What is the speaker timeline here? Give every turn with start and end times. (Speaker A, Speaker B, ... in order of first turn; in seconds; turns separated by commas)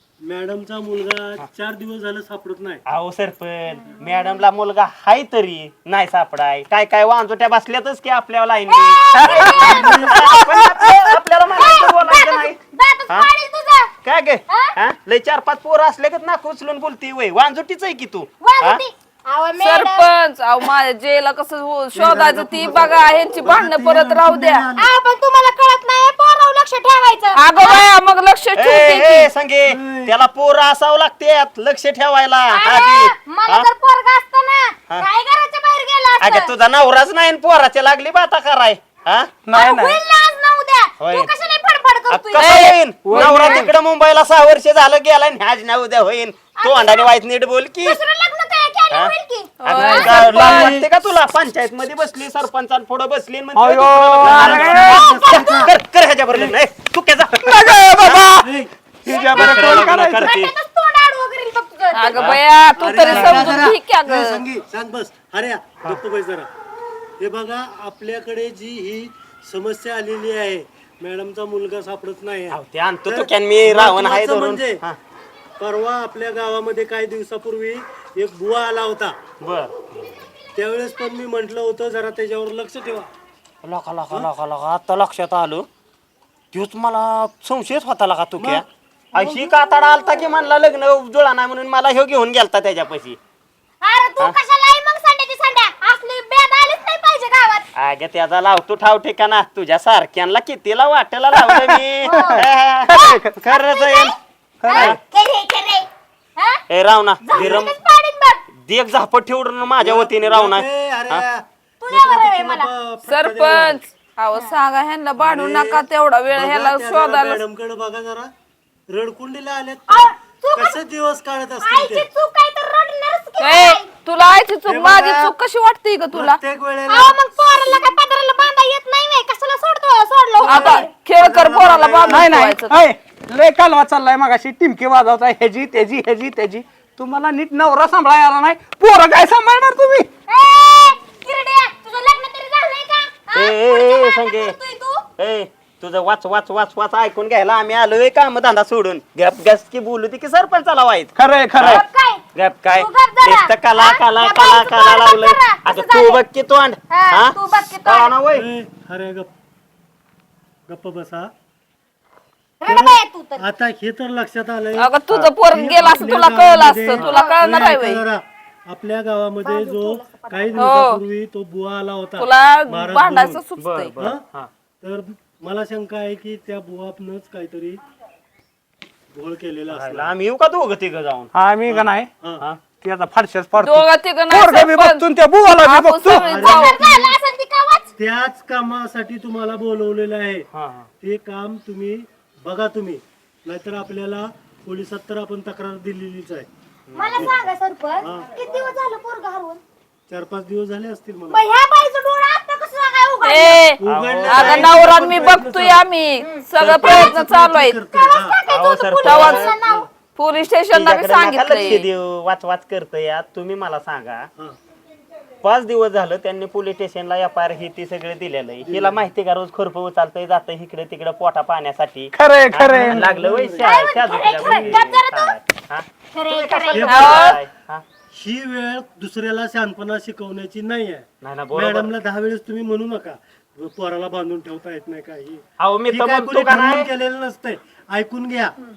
Speaker A: 0.2-2.8, Speaker B: 2.9-13.3, Speaker C: 8.7-13.9, Speaker D: 9.2-9.8, Speaker A: 9.6-10.2, Speaker B: 14.0-18.8, Speaker C: 14.5-14.8, Speaker C: 18.4-20.1, Speaker E: 19.6-24.7, Speaker A: 21.9-24.9, Speaker C: 24.8-27.9, Speaker E: 27.4-29.3, Speaker B: 28.6-33.7, Speaker A: 29.7-30.1, Speaker C: 32.5-36.5, Speaker B: 36.2-39.3, Speaker D: 39.5-40.0, Speaker C: 39.5-42.7, Speaker B: 41.0-41.3, Speaker B: 42.1-48.0, Speaker E: 42.4-43.7, Speaker D: 43.0-43.7, Speaker C: 46.6-47.1, Speaker C: 47.8-50.6, Speaker E: 49.6-50.8, Speaker B: 49.6-58.3, Speaker A: 50.0-50.8, Speaker D: 53.5-55.0, Speaker A: 54.2-55.7, Speaker C: 54.3-55.7, Speaker D: 57.4-58.5, Speaker A: 58.4-58.7, Speaker D: 59.0-60.4, Speaker C: 59.1-62.3, Speaker B: 59.3-60.5, Speaker E: 62.0-64.4, Speaker B: 62.2-62.4, Speaker A: 62.8-66.5, Speaker B: 63.1-63.6, Speaker A: 67.2-74.8, Speaker B: 72.5-75.0, Speaker A: 75.6-79.2, Speaker B: 79.4-79.7, Speaker A: 80.5-83.1, Speaker B: 83.6-85.7, Speaker B: 86.5-93.2, Speaker C: 89.2-90.3, Speaker C: 93.8-97.7, Speaker B: 97.8-104.1, Speaker D: 101.3-103.4, Speaker C: 102.0-106.6, Speaker D: 104.6-105.0, Speaker B: 104.7-105.0, Speaker B: 106.7-107.8, Speaker C: 107.2-108.4, Speaker A: 107.3-107.6, Speaker B: 108.5-111.2, Speaker A: 109.8-113.8, Speaker C: 111.8-112.7, Speaker E: 113.1-117.4, Speaker A: 115.2-118.3, Speaker A: 118.9-122.1, Speaker C: 119.9-120.8, Speaker C: 121.6-124.0, Speaker E: 123.4-126.4, Speaker A: 124.7-125.3, Speaker A: 126.1-127.9, Speaker C: 126.9-130.9, Speaker E: 130.4-132.8, Speaker A: 130.4-132.3, Speaker D: 132.1-140.1, Speaker C: 140.3-145.0, Speaker B: 143.3-144.6, Speaker B: 145.2-151.8, Speaker D: 151.2-151.8, Speaker C: 151.6-152.2, Speaker B: 152.3-158.5, Speaker C: 152.7-156.2, Speaker C: 156.9-158.2, Speaker A: 158.3-159.3, Speaker A: 160.7-161.3, Speaker C: 162.6-163.5, Speaker A: 162.6-173.4, Speaker E: 164.8-168.1, Speaker C: 167.1-167.4, Speaker C: 169.4-170.7, Speaker E: 170.6-171.0, Speaker E: 172.2-174.0, Speaker B: 173.6-174.5, Speaker A: 174.0-174.2, Speaker A: 174.8-177.8, Speaker A: 179.1-180.2, Speaker B: 179.7-182.6, Speaker D: 181.3-182.1, Speaker D: 182.8-186.2, Speaker E: 183.6-185.1, Speaker E: 185.6-186.8, Speaker C: 186.1-187.9, Speaker A: 186.1-187.2, Speaker A: 188.0-190.5, Speaker B: 190.5-190.9, Speaker A: 191.0-196.5, Speaker B: 196.9-197.4, Speaker C: 196.9-199.6, Speaker A: 198.0-198.3, Speaker A: 200.1-201.5, Speaker C: 201.3-203.7, Speaker E: 203.2-207.8, Speaker A: 203.8-205.9, Speaker B: 203.8-205.0, Speaker C: 206.2-206.5, Speaker B: 206.6-207.1, Speaker A: 206.6-208.4, Speaker C: 207.9-209.9, Speaker B: 208.5-209.5, Speaker E: 209.0-209.5, Speaker A: 209.5-209.8, Speaker E: 210.2-211.9, Speaker B: 210.7-214.3, Speaker B: 215.4-227.8, Speaker A: 218.7-219.0, Speaker D: 222.1-223.1, Speaker A: 222.8-224.8, Speaker C: 223.6-225.4, Speaker C: 226.1-227.1, Speaker A: 226.7-227.4, Speaker E: 226.9-227.4, Speaker A: 228.1-238.6, Speaker B: 231.2-231.9, Speaker B: 235.6-236.9